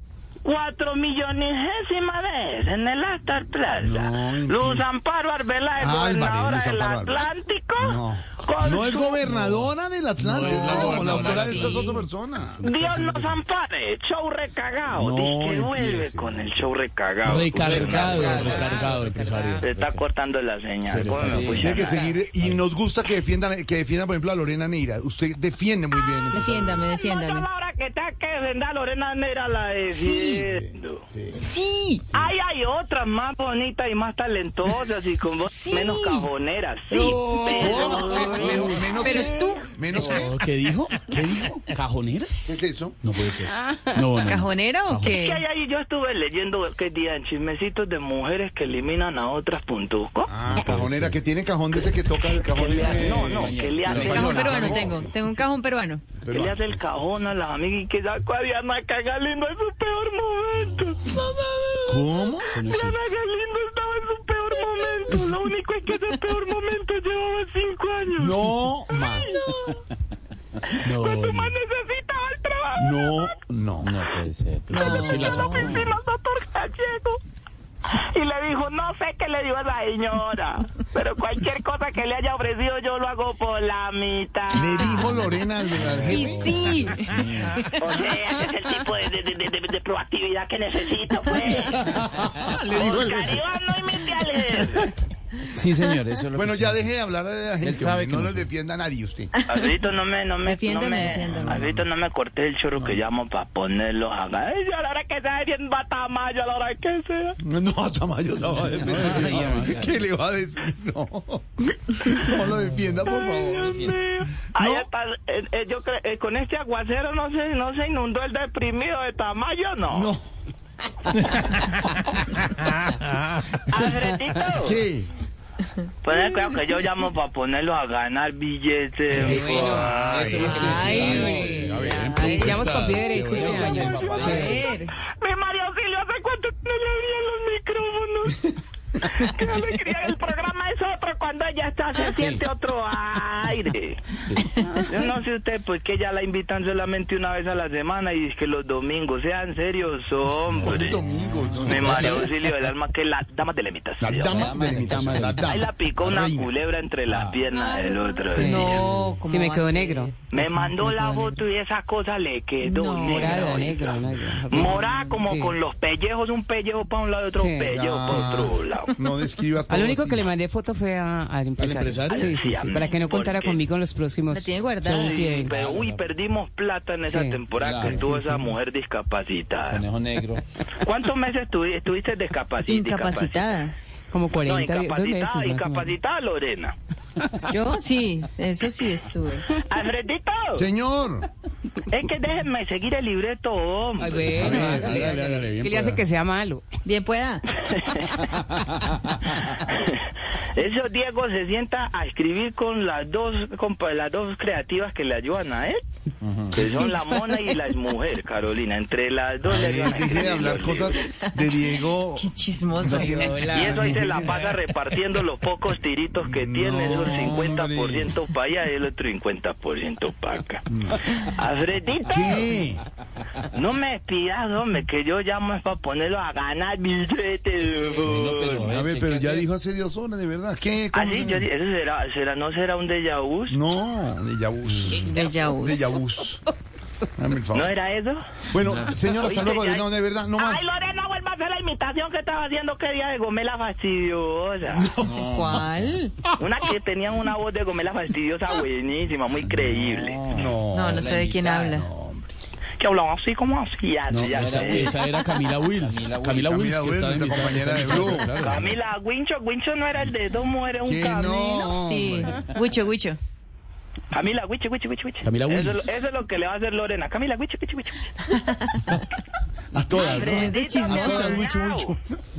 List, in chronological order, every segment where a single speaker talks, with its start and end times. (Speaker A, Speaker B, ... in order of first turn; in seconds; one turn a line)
Speaker A: 0.4-9.3
Speaker B: 3.8-4.9
Speaker B: 5.8-7.2
Speaker B: 7.8-12.6
Speaker C: 9.2-11.9
Speaker D: 12.4-13.3
Speaker A: 12.6-18.7
Speaker B: 14.9-16.5
Speaker C: 17.2-19.7
Speaker E: 17.6-19.7
Speaker D: 17.7-18.5
Speaker A: 19.6-22.1
Speaker D: 19.7-20.0
Speaker C: 20.8-21.9
Speaker D: 21.0-21.8
Speaker B: 21.6-26.9
Speaker D: 22.4-22.6
Speaker F: 26.3-27.4
Speaker A: 26.8-31.0
Speaker F: 29.9-30.4
Speaker B: 30.5-31.4
Speaker F: 31.4-32.0
Speaker A: 32.1-39.6
Speaker F: 35.5-36.3
Speaker B: 36.9-40.3
Speaker F: 37.8-38.4
Speaker F: 39.0-39.6
Speaker C: 39.9-41.0
Speaker B: 41.0-41.6
Speaker C: 41.7-42.5
Speaker B: 42.4-43.0
Speaker C: 43.0-45.2
Speaker E: 43.5-44.0
Speaker F: 44.2-45.4
Speaker A: 45.1-50.3
Speaker B: 50.3-55.1
Speaker D: 50.6-51.1
Speaker A: 52.5-54.9
Speaker D: 52.6-54.9
Speaker C: 53.9-54.2
Speaker F: 54.2-56.0
Speaker B: 56.2-56.8
Speaker A: 56.3-61.3
Speaker B: 61.8-62.6
Speaker C: 62.5-63.0
Speaker A: 62.6-68.4
Speaker B: 68.2-69.4
Speaker A: 68.9-69.7
Speaker A: 70.7-73.3
Speaker C: 70.8-71.5
Speaker B: 72.8-73.9
Speaker D: 73.8-75.9
Speaker C: 74.7-76.0
Speaker A: 74.7-77.2
Speaker F: 74.9-75.7
Speaker A: 77.9-85.0
Speaker B: 84.5-87.0
Speaker D: 85.0-87.6
Speaker F: 86.1-87.2
Speaker A: 87.8-91.9
Speaker B: 92.2-93.4
Speaker A: 92.5-94.9
Speaker D: 95.5-97.0
Speaker B: 96.3-99.3
Speaker D: 97.6-98.5
Speaker A: 99.5-107.4
Speaker F: 100.4-101.6
Speaker B: 101.1-101.8
Speaker B: 102.7-103.0
Speaker B: 107.4-113.9
Speaker C: 108.8-109.9
Speaker D: 108.8-109.9
Speaker A: 113.0-120.1
Speaker D: 113.1-114.0
Speaker B: 114.5-114.9
Speaker B: 119.9-120.2
Speaker A: 123.7-124.8
Speaker B: 124.6-125.1
Speaker A: 126.0-130.0
Speaker E: 129.1-130.8
Speaker B: 129.1-132.1
Speaker C: 129.2-134.2
Speaker F: 130.7-132.5
Speaker E: 132.4-134.7
Speaker D: 133.3-134.7
Speaker A: 133.3-138.4
Speaker F: 134.4-134.9
Speaker A: 139.0-144.0
Speaker D: 142.1-142.4
Speaker D: 144.3-144.6
Speaker A: 144.7-151.0
Speaker D: 150.5-152.3
Speaker B: 150.6-152.2
Speaker A: 151.6-154.4
Speaker B: 154.0-156.5
Speaker D: 154.1-155.4
Speaker C: 154.9-155.4
Speaker A: 155.4-158.9
Speaker D: 157.1-157.4
Speaker F: 157.5-160.1
Speaker E: 158.3-161.4
Speaker D: 158.7-159.2
Speaker A: 160.2-168.9
Speaker F: 162.6-163.5
Speaker E: 163.0-165.6
Speaker F: 164.8-165.1
Speaker E: 167.3-168.4
Speaker B: 167.7-170.3
Speaker E: 169.7-175.6
Speaker C: 171.6-172.3
Speaker A: 172.1-173.7
Speaker F: 174.3-175.1
Speaker A: 174.9-179.9
Speaker D: 175.4-176.1
Speaker E: 177.1-178.4
Speaker D: 177.5-178.2
Speaker D: 179.7-180.4
Speaker A: 180.8-183.6
Speaker F: 182.7-183.7
Speaker E: 184.1-185.9
Speaker A: 184.3-186.8
Speaker F: 187.5-189.4
Speaker A: 189.5-190.7
Speaker B: 190.6-191.3
Speaker A: 191.9-194.5
Speaker E: 194.0-196.7
Speaker B: 194.3-195.2
Speaker C: 194.3-196.0
Speaker F: 196.8-197.4
Speaker A: 197.6-198.2
Speaker D: 198.6-198.9
Speaker A: 199.3-205.8
Speaker D: 206.2-206.7
Speaker A: 206.5-211.0
Speaker B: 209.4-214.6
Speaker F: 211.2-211.5
Speaker F: 212.2-213.5
Speaker A: 213.4-222.5
Speaker B: 216.2-218.1
Speaker B: 222.1-222.8
Speaker A: 223.4-228.7
Speaker D: 228.0-229.5
Speaker B: 228.7-231.5
Speaker A: 230.9-233.6
Speaker B: 233.5-236.4
Speaker D: 234.9-235.2
Speaker F: 235.1-235.9
Speaker B: 237.1-237.8
Speaker A: 237.5-238.2
Speaker B: 238.5-240.7
Speaker A: 239.1-244.9
Speaker B: 244.7-246.0
Speaker F: 245.1-246.1
Speaker A: 246.3-250.3
Speaker D: 249.4-251.8
Speaker B: 250.3-252.3
Speaker F: 250.7-251.8
Speaker A: 252.8-255.0
Speaker C: 254.1-258.7
Speaker D: 254.2-255.1
Speaker D: 255.7-256.5
Speaker B: 256.3-258.4
Speaker A: 258.4-261.8
Speaker B: 260.8-262.4
Speaker F: 261.8-263.2
Speaker D: 262.2-262.6
Speaker A: 264.1-268.0
Speaker C: 265.2-265.9
Speaker B: 269.7-272.0
Speaker A: 269.9-271.9
Speaker F: 270.3-271.4